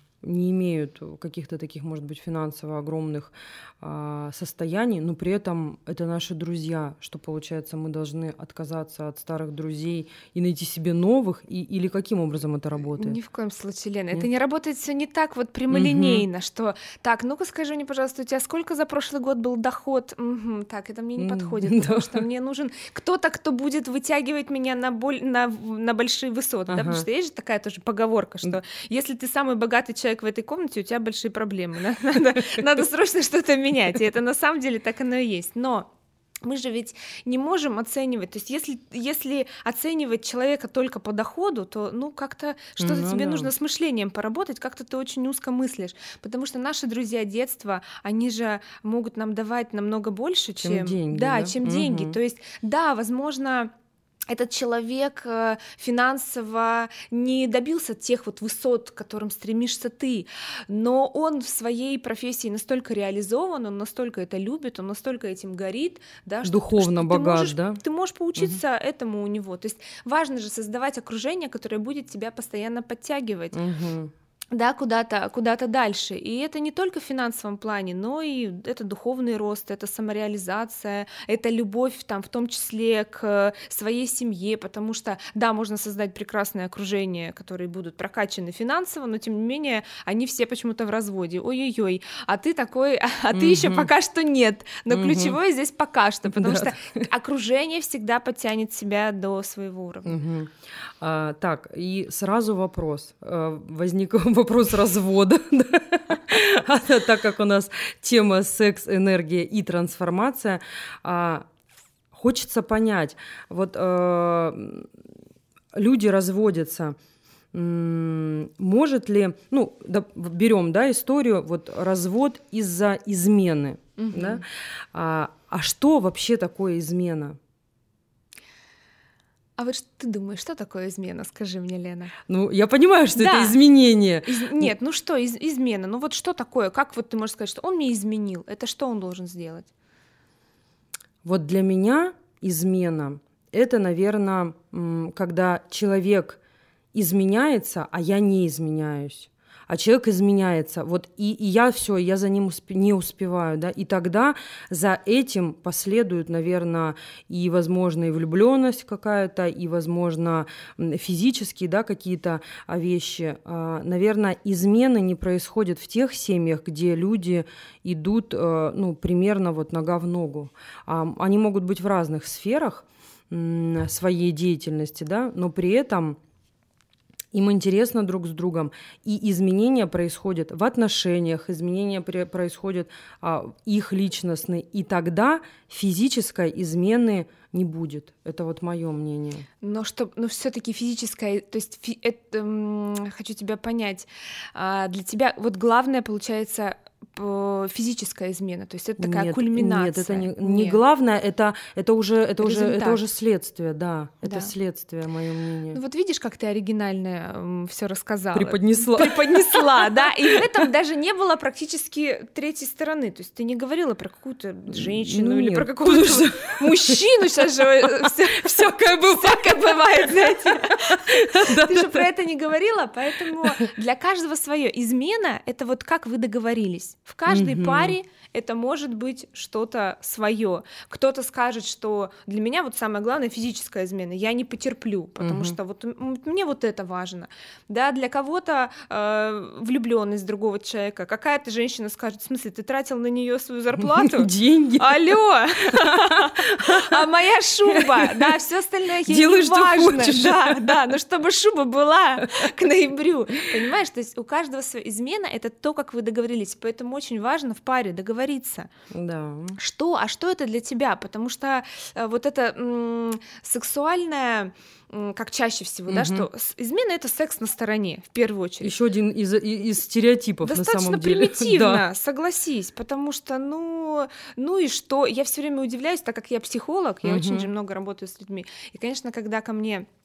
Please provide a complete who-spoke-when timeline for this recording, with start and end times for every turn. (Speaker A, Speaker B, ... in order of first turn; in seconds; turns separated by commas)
Speaker A: 0.2-13.2, Speaker B: 13.0-35.9, Speaker A: 15.7-16.2, Speaker A: 21.2-22.2, Speaker A: 26.7-27.1, Speaker B: 36.4-53.7, Speaker A: 42.8-43.5, Speaker A: 50.6-52.2, Speaker B: 54.3-73.6, Speaker A: 66.4-67.8, Speaker A: 73.5-74.1, Speaker B: 74.5-100.2, Speaker A: 93.3-93.9, Speaker A: 94.9-95.4, Speaker A: 96.3-97.1, Speaker A: 100.1-111.5, Speaker A: 112.1-114.9, Speaker A: 115.7-117.0, Speaker A: 117.5-127.4, Speaker B: 124.0-124.4, Speaker B: 129.6-132.1, Speaker A: 132.3-134.7, Speaker B: 133.2-133.6, Speaker B: 134.2-139.7, Speaker A: 141.2-146.4, Speaker A: 146.9-176.2, Speaker A: 177.3-189.5, Speaker B: 189.6-200.8, Speaker A: 199.0-205.8, Speaker B: 202.4-203.0, Speaker B: 204.2-204.5, Speaker B: 205.7-258.7, Speaker A: 208.3-210.4, Speaker A: 214.7-217.0, Speaker A: 218.0-222.1, Speaker A: 223.3-223.6, Speaker A: 227.3-228.0, Speaker A: 235.2-235.6, Speaker A: 244.0-245.0, Speaker A: 245.7-247.1, Speaker A: 247.7-248.3, Speaker A: 249.1-250.9, Speaker A: 258.9-259.6, Speaker B: 259.6-268.8, Speaker A: 265.9-266.2, Speaker A: 268.6-271.8, Speaker B: 270.4-279.9, Speaker A: 277.0-277.5